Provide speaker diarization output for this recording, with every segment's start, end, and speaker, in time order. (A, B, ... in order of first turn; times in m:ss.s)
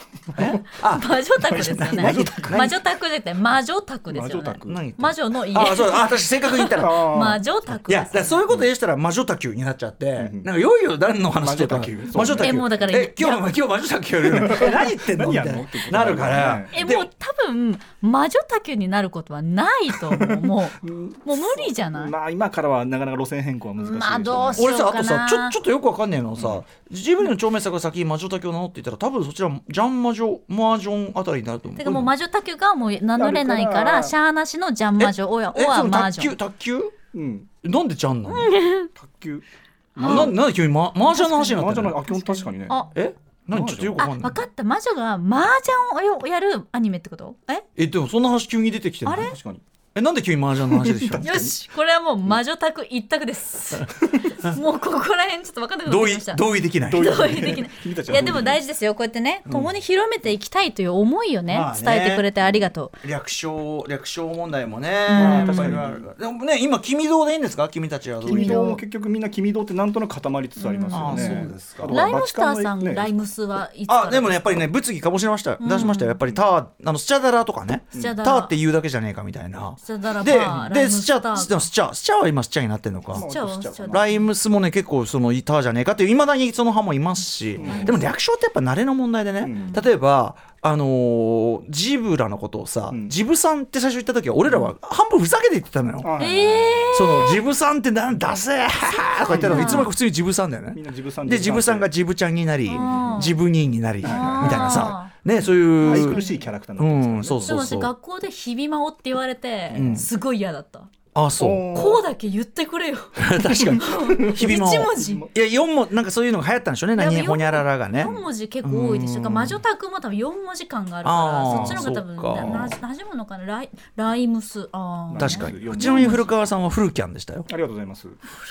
0:00.4-0:02.8 A
0:00.7-0:08.4 B
0:01.7-0:02.7 C
0:04.1-0:04.8 C
0:04.7-0:07.0 A
0:06.8-0:07.4 C
0:07.8-0:17.1 A
0:10.2-0:10.4 C
0:11.3-0:12.6 C
0:12.4-0:13.5 B
0:14.2-0:16.8 C
0:16.7-0:22.1 B
0:20.1-0:24.7 C
0:23.8-0:25.6 B
0:24.6-0:32.1 A
0:26.4-0:26.6 C
0:31.8-0:36.3 B
0:33.2-0:34.1 C
0:35.0-0:36.9 A
0:37.1-0:37.5 C
0:37.6-0:38.5 A
0:38.3-0:38.9 B
0:39.0-0:39.4 C
0:39.9-0:40.4 C
0:40.0-0:40.3 B
0:40.0-0:42.0 A
0:41.1-0:42.9 B
0:41.4-0:42.8 C
0:42.9-0:44.4 A
0:43.5-0:44.0 C
0:44.0-0:47.6 B
0:47.8-0:49.3 A
0:49.0-0:49.3 B
0:49.1-0:49.6 C
0:49.9-0:51.4 A
0:50.7-0:51.6 C
0:51.2-0:56.4 B
0:55.8-0:57.2 A
0:56.8-0:58.6 C
0:57.0-1:02.9 B
1:01.5-1:02.4 A
1:03.0-1:08.7 A
1:05.1-1:05.8 B
1:05.1-1:06.0 C
1:08.2-1:13.1 C
1:08.2-1:08.8 B
1:10.6-1:14.5 B
1:10.9-1:12.1 A
1:13.9-1:23.3 A
1:15.6-1:16.2 B
1:17.9-1:18.5 B
1:19.8-1:21.7 B
1:23.1-1:24.1 C
1:23.1-1:24.2 B
1:23.9-1:36.1 A
1:27.6-1:28.0 C
1:27.6-1:28.0 B
1:29.4-1:29.8 C
1:32.9-1:33.2 C
1:36.0-1:37.0 C
1:36.2-1:37.4 B
1:36.9-1:46.2 A
1:39.2-1:39.9 B
1:39.2-1:39.9 C
1:40.7-1:41.9 C
1:42.7-1:43.3 C
1:42.7-1:43.3 B
1:44.0-1:44.9 C
1:44.0-1:45.1 B
1:45.8-1:47.6 C
1:45.8-1:46.4 B
1:46.8-1:47.9 A
1:47.4-1:50.9 B
1:49.7-1:50.1 A
1:51.1-1:51.7 A
1:51.4-1:52.0 C
1:51.7-1:55.2 B
1:53.2-1:59.6 A
1:53.6-1:55.3 C
1:56.9-2:06.3 B
2:01.0-2:02.6 A
2:01.5-2:02.8 C
2:05.1-2:06.3 C
2:05.2-2:07.5 A
2:07.5-2:08.2 C